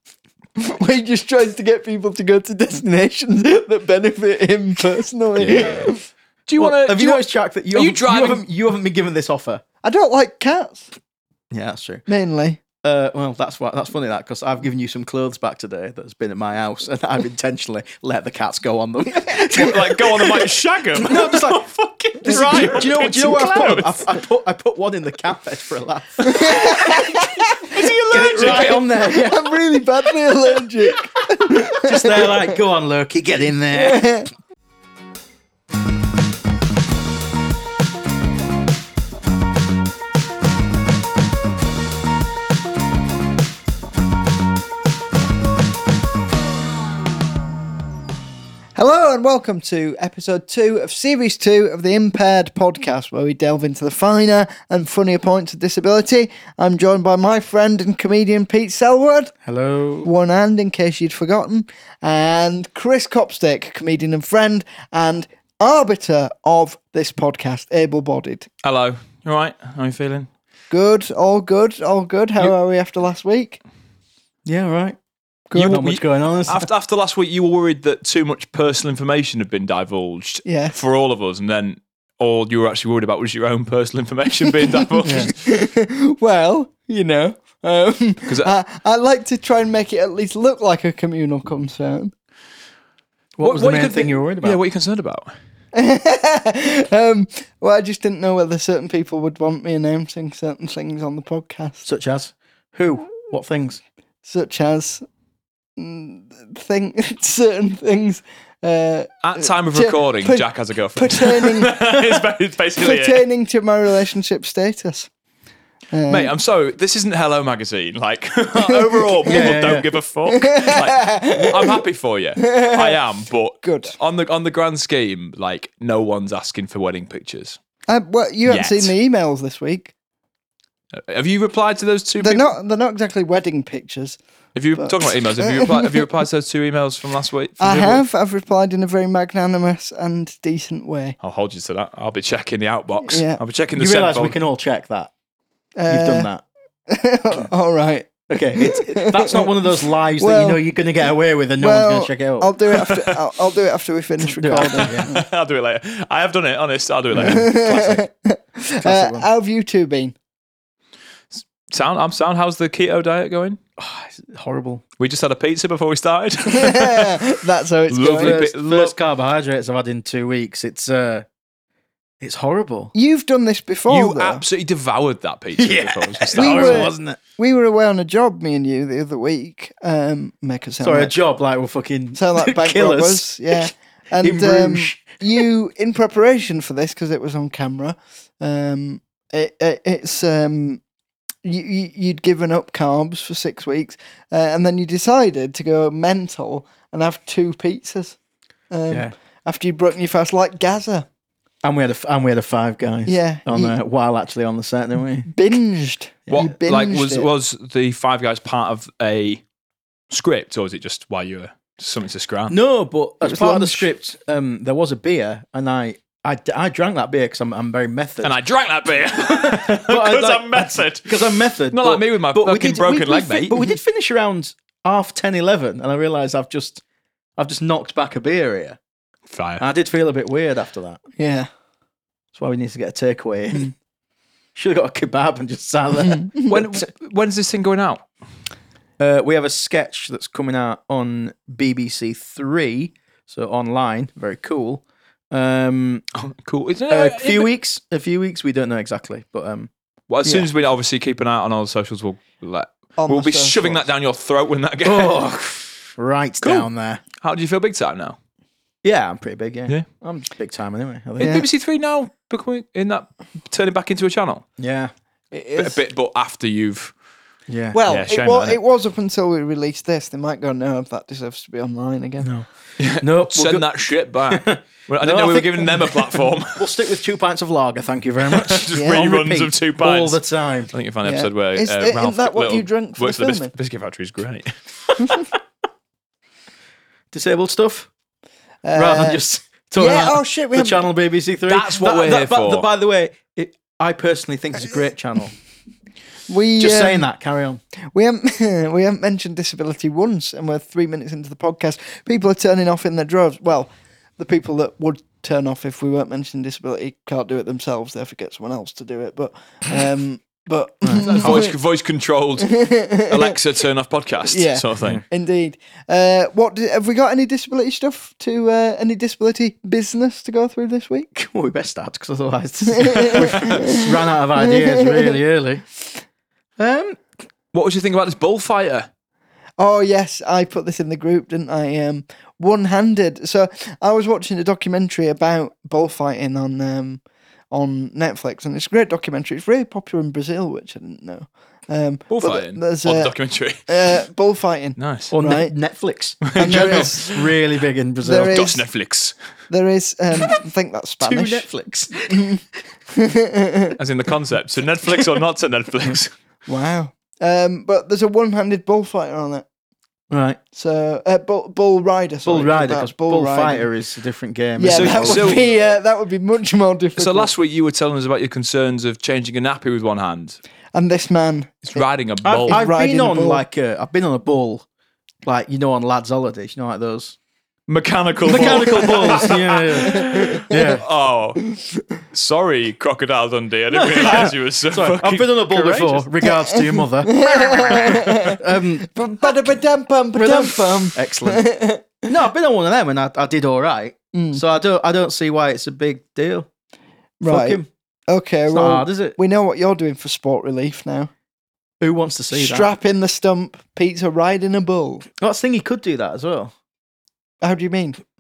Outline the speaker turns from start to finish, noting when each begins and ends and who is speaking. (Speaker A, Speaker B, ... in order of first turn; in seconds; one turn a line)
Speaker A: 0.6-6.0
Speaker B: 5.4-5.9
Speaker B: 6.5-8.4
Speaker C: 6.6-9.6
Speaker A: 9.8-10.9
Speaker C: 11.5-12.1
Speaker A: 12.1-12.6
Speaker C: 12.8-21.6
Speaker B: 19.4-24.1
Speaker C: 22.2-27.3
Speaker A: 26.2-32.6
Speaker B: 27.6-28.9
Speaker C: 28.1-29.6
Speaker C: 31.7-34.0
Speaker A: 33.7-34.3
Speaker A: 48.8-59.3
Speaker C: 59.5-60.1
Speaker A: 60.0-68.5
Speaker B: 68.6-70.3
Speaker A: 70.7-73.6
Speaker C: 74.5-75.0
Speaker A: 75.5-75.9
Speaker B: 75.5-85.3
Speaker C: 75.6-76.7
Speaker A: 80.5-80.8
Speaker A: 84.5-92.1
Speaker C: 85.0-85.3
Speaker B: 88.3-88.5
Speaker C: 93.4-94.6
Speaker B: 93.4-95.3
Speaker A: 95.7-101.9
Speaker C: 101.8-103.8
Speaker A: 104.2-105.0
Speaker A: 105.8-111.8
Speaker B: 109.2-113.2
Speaker A: 112.8-115.1
Speaker A: 115.9-116.3
Speaker B: 116.1-127.6
Speaker C: 119.3-119.9
Speaker A: 120.3-121.8
Speaker A: 122.4-123.0
Speaker A: 123.6-123.9
Speaker A: 127.9-129.9
Speaker B: 128.5-128.9
Speaker B: 130.9-132.5
Speaker A: 132.2-134.2
Speaker B: 134.6-138.0
Speaker A: 134.8-136.1
Speaker A: 137.6-141.2
Speaker B: 141.2-144.4
Speaker A: 143.0-143.4
Speaker C: 143.8-145.1
Speaker A: 145.8-146.3
Speaker C: 145.9-146.4
Speaker A: 146.9-149.5
Speaker C: 148.3-152.5
Speaker A: 150.2-150.6
Speaker A: 151.6-155.2
Speaker B: 152.7-153.2
Speaker C: 154.2-155.2
Speaker B: 154.7-158.1
Speaker A: 157.2-160.2
Speaker C: 158.8-159.3
Speaker B: 161.3-163.6
Speaker C: 163.8-164.8
Speaker B: 165.0-167.2
Speaker A: 166.5-168.4
Speaker B: 167.9-168.9
Speaker C: 168.2-171.3
Speaker C: 172.2-172.9
Speaker A: 172.9-174.4
Speaker B: 173.9-176.9
Speaker C: 175.6-177.2
Speaker A: 176.4-181.1
Speaker C: 180.8-183.7
Speaker A: 182.2-190.8
Speaker C: 184.2-185.4
Speaker A: 191.4-198.2
Speaker A: 198.7-201.1
Speaker C: 201.6-205.3
Speaker A: 203.1-203.8
Speaker A: 205.3-207.3
Speaker B: 206.3-209.4
Speaker B: 210.1-212.6
Speaker C: 212.5-218.3
Speaker B: 213.5-213.8
Speaker B: 218.2-223.7
Speaker C: 219.2-226.8
Speaker C: 227.4-228.8
Speaker B: 229.3-229.6
Speaker C: 229.6-231.0
Speaker A: 231.2-231.5
Speaker C: 232.3-233.7
Speaker C: 234.6-236.9
Speaker B: 236.5-238.1
Speaker C: 239.0-246.1
Speaker B: 246.2-247.5
Speaker C: 246.9-249.7
Speaker B: 250.1-255.2
Speaker A: 253.0-253.8
Speaker C: 254.8-257.0
Speaker B: 256.4-258.2
Speaker C: 258.8-261.5
Speaker B: 261.2-264.4
Speaker C: 264.6-264.9
Speaker A: 265.3-265.8
Speaker B: 265.6-266.9
Speaker C: 267.5-267.8
Speaker A: 267.7-272.3
Speaker B: 267.9-268.6
Speaker B: 272.8-276.8
Speaker C: 273.0-273.7
Speaker C: 274.3-280.7
Speaker B: 278.3-280.2
Speaker A: 278.7-279.0
Speaker B: 280.7-285.2
Speaker A: 281.0-283.5
Speaker C: 287.1-287.9
Speaker A: 288.6-289.2
Speaker C: 288.8-295.4
Speaker A: 289.8-290.8
Speaker B: 291.5-292.7
Speaker A: 296.3-297.1
Speaker C: 296.6-297.6
Speaker A: 297.9-311.5
Speaker C: 310.8-311.3
Speaker B: 311.1-315.0
Speaker A: 312.4-313.4
Speaker A: 314.3-321.1
Speaker C: 321.1-325.7
Speaker A: 322.7-323.8
Speaker B: 323.0-323.6
Speaker A: 324.4-325.2
Speaker C: 326.6-327.0
Speaker B: 327.5-328.9
Speaker A: 329.6-343.1
Speaker B: 342.1-343.6
Speaker A: 343.7-345.5
Speaker B: 344.8-345.1
Speaker C: 345.1-348.5
Speaker B: 346.3-347.4
Speaker A: 346.4-347.1
Speaker A: 348.0-348.6
Speaker B: 348.3-349.1
Speaker A: 349.5-351.5
Speaker C: 351.0-352.3
Speaker A: 352.1-353.8
Speaker B: 353.8-356.1
Speaker A: 356.5-359.5
Speaker C: 360.1-360.4
Speaker A: 360.5-363.7
Speaker C: 362.2-365.4
Speaker A: 364.6-367.3
Speaker B: 364.7-365.4
Speaker B: 367.0-370.4
Speaker A: 370.7-371.9
Speaker B: 371.6-372.6
Speaker C: 372.2-374.6
Speaker A: 372.5-373.4
Speaker C: 375.2-377.2
Speaker B: 377.7-381.4
Speaker C: 378.2-380.8
Speaker A: 378.3-379.3
Speaker A: 379.9-380.4
Speaker B: 382.1-386.1
Speaker C: 383.7-389.4
Speaker A: 386.2-388.4
Speaker A: 388.9-392.0
Speaker C: 390.1-391.4
Speaker C: 392.0-396.5
Speaker A: 394.1-394.4
Speaker A: 397.2-401.1
Speaker C: 397.3-397.7
Speaker C: 398.5-399.2
Speaker C: 401.8-402.7
Speaker A: 402.3-405.1
Speaker C: 405.2-406.5
Speaker A: 407.4-408.0